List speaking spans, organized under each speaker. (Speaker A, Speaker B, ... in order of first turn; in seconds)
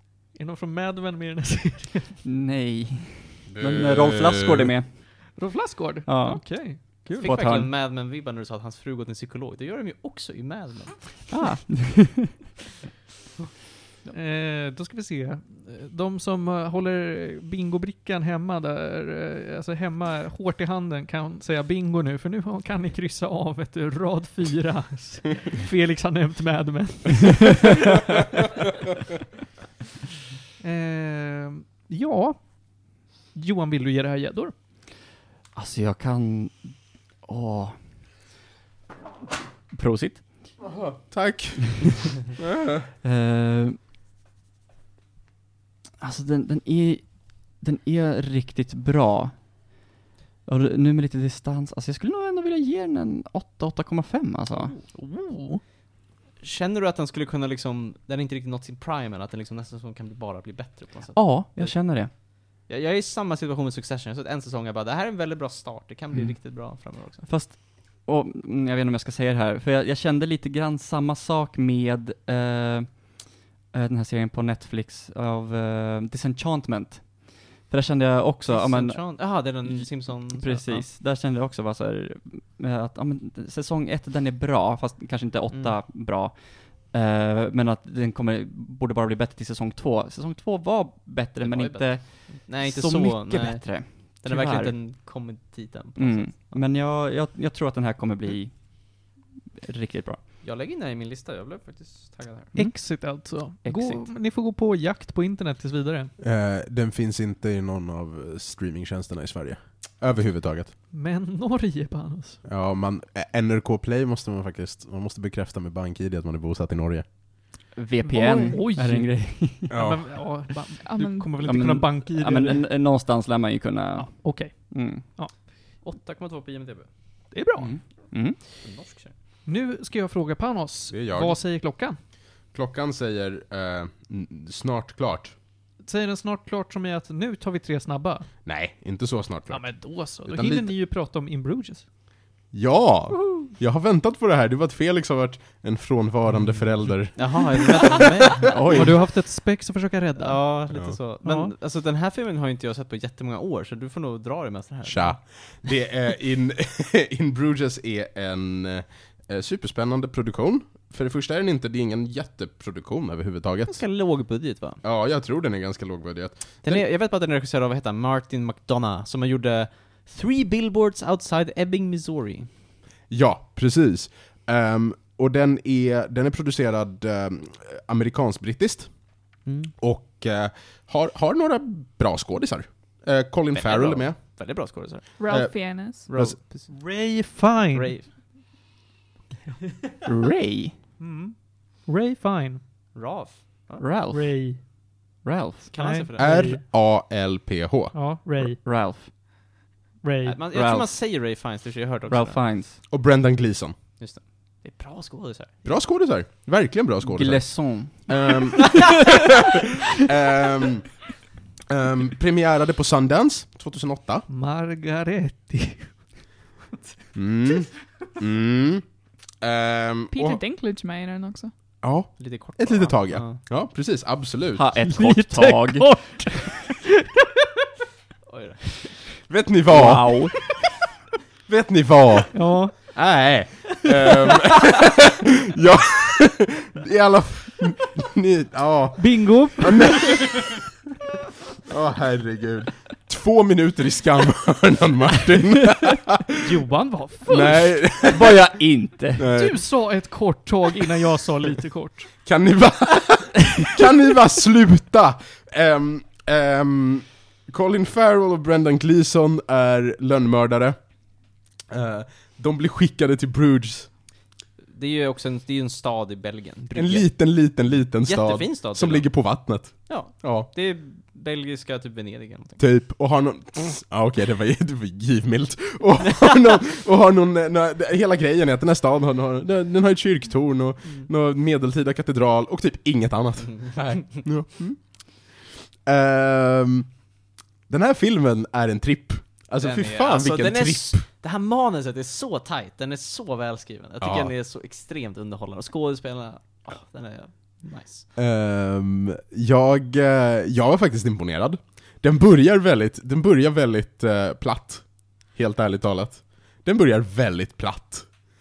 Speaker A: 0.3-2.2, 5.3-7.1, 14.1-28.0, 30.6-34.5, 54.9-55.6, 102.5-106.1, 110.9-112.4, 118.0-122.7, 124.0-125.3, 127.3-127.8, 129.5-132.0, 135.8-138.3, 139.5-141.9, 148.7-150.6, 151.2-151.5, 186.7-187.9, 191.0-192.6, 194.1-194.6, 195.8-196.6, 197.9-198.6, 200.0-200.4, 214.3-216.0, 224.8-227.3, 232.3-232.8, 239.0-240.3, 246.3-247.9, 249.3-252.1
Speaker B: 2.2-5.2, 6.1-7.7, 11.3-12.3, 35.5-37.8, 39.7-40.2, 43.0-43.8, 46.0-49.5, 50.5-54.8, 61.1-62.1, 67.2-94.8, 96.0-100.2, 103.6-104.0, 117.8-119.8, 121.4-125.0, 127.6-128.4, 148.5-148.9, 190.1-190.7, 193.8-194.7, 195.2-195.7, 198.6-199.1, 200.5-200.9, 202.1-202.8, 207.0-208.7, 224.6-225.9, 229.7-230.3, 248.0-249.3
Speaker C: 3.5-4.7, 40.6-42.8, 106.2-110.7, 112.5-117.1, 119.7-120.0, 130.9-131.4, 132.5-135.3, 138.4-140.7, 142.5-149.0, 150.7-151.0, 154.9-163.8, 164.8-166.8, 173.1-179.0, 179.8-184.2, 185.3-186.4, 196.2-198.0, 202.9-203.8, 205.7-211.0, 211.7-214.3, 217.2-218.9, 219.4-220.4, 221.8-224.7, 229.3-230.2, 231.5-240.6, 241.7-246.4, 247.3-248.5, 249.2-249.7, 252.2-260.9, 261.7-263.9, 266.7-270.5, 272.6-287.0, 287.7-291.1, 294.0-294.3, 298.2-308.2
Speaker D: 7.1-11.3, 56.4-61.8, 62.7-67.3, 78.5-80.9, 85.5-85.8, 91.4-96.3, 100.4-102.6, 125.8-126.9, 128.6-129.2, 146.5-148.6, 150.2-155.2, 163.7-164.8, 166.6-172.5, 179.4-179.7, 183.5-186.7, 187.7-188.1, 192.9-193.8, 195.7-196.6, 200.2-202.4, 204.0-205.7, 222.2-223.4, 228.3-228.6, 264.7-267.1, 268.0-272.6, 283.4-284.2, 289.6-298.1
Speaker E: 120.8-121.4, 185.2-186.1, 220.1-221.5